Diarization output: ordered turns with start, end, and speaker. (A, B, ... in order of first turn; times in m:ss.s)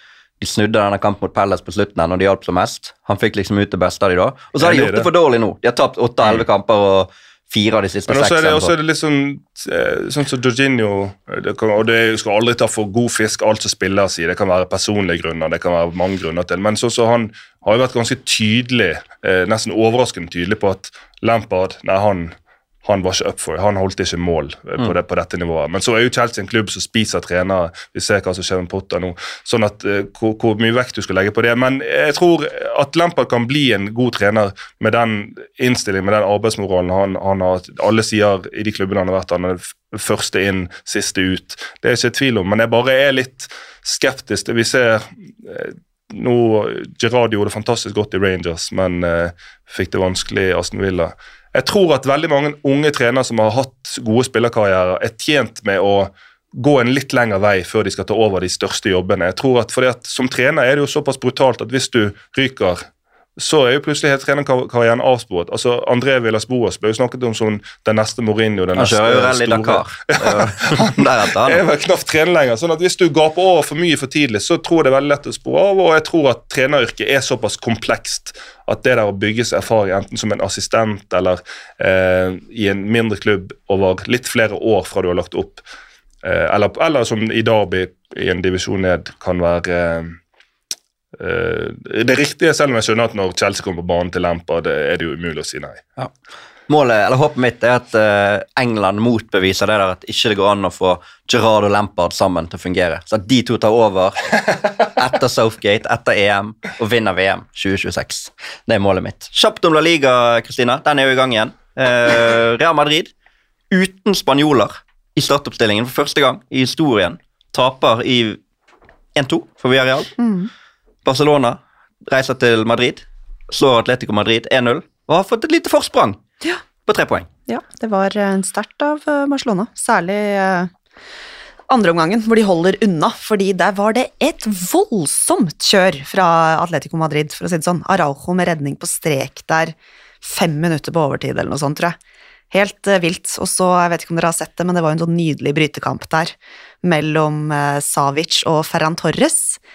0:00.4-0:08.7 A
0:04.6-0:05.1 B
0:08.1-1:25.6 B
1:08.8-1:11.6 A
1:26.2-1:30.2 B
1:31.2-1:35.8 B
1:36.7-1:53.1 A
1:53.7-1:58.4 A
1:59.1-2:00.1 A
2:00.2-2:00.5 C
2:01.0-2:06.2 A
2:06.8-2:07.3 A
2:07.5-2:10.7 C
2:11.7-2:22.0 C
2:22.5-2:29.6 C